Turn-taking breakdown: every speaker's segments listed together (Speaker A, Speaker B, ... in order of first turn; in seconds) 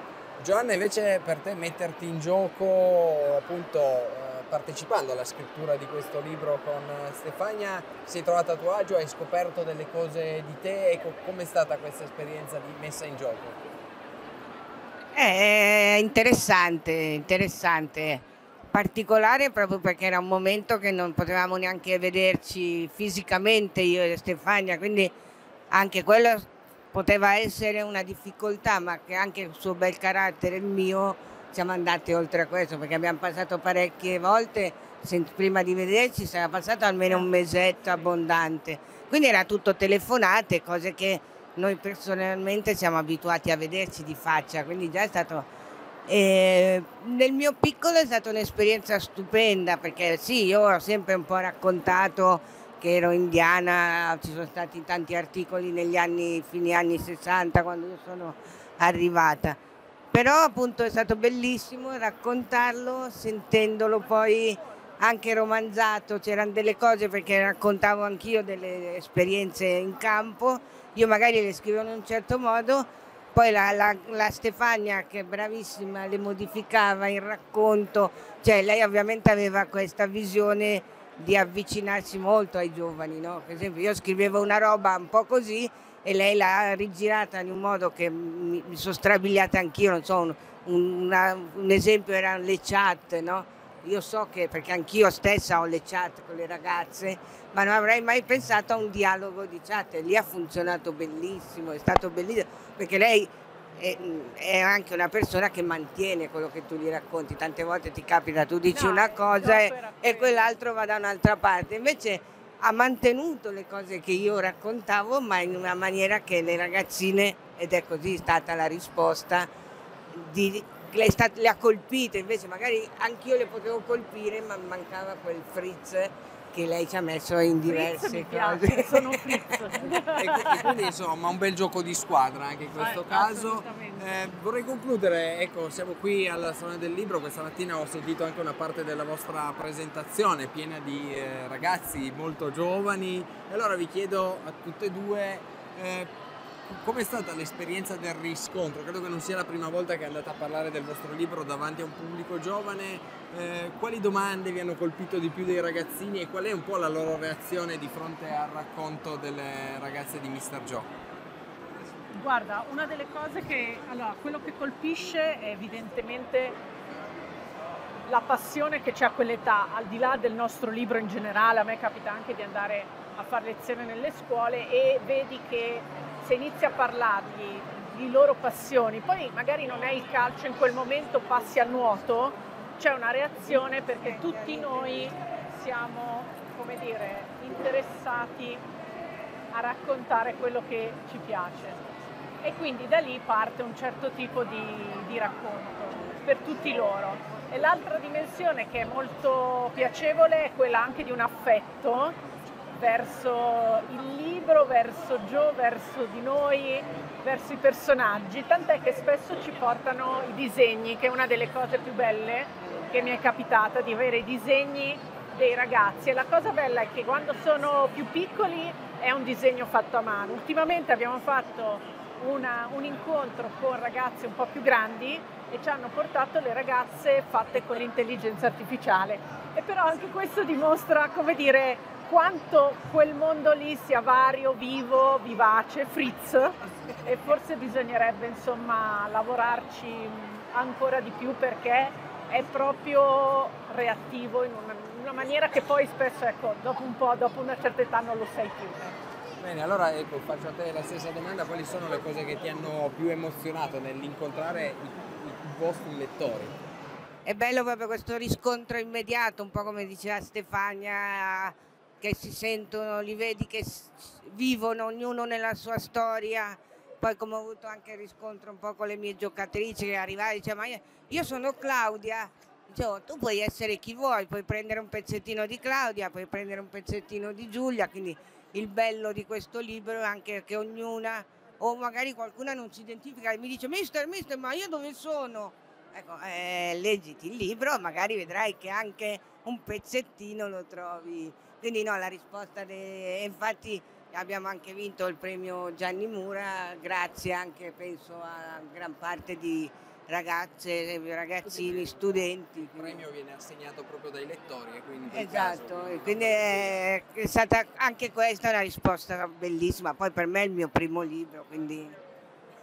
Speaker A: 0.4-13.6, 130.2-146.1, 146.7-160.9, 249.4-256.6, 302.7-306.8
Speaker B: 15.2-25.1, 25.7-45.5, 46.1-59.6, 60.1-119.5, 120.1-129.8, 183.5-185.1, 257.3-303.0, 305.1-312.0
Speaker C: 108.7-110.5, 127.7-130.9, 132.8-134.1, 162.1-166.6, 168.1-188.6, 189.5-191.8, 192.4-202.2, 202.8-249.0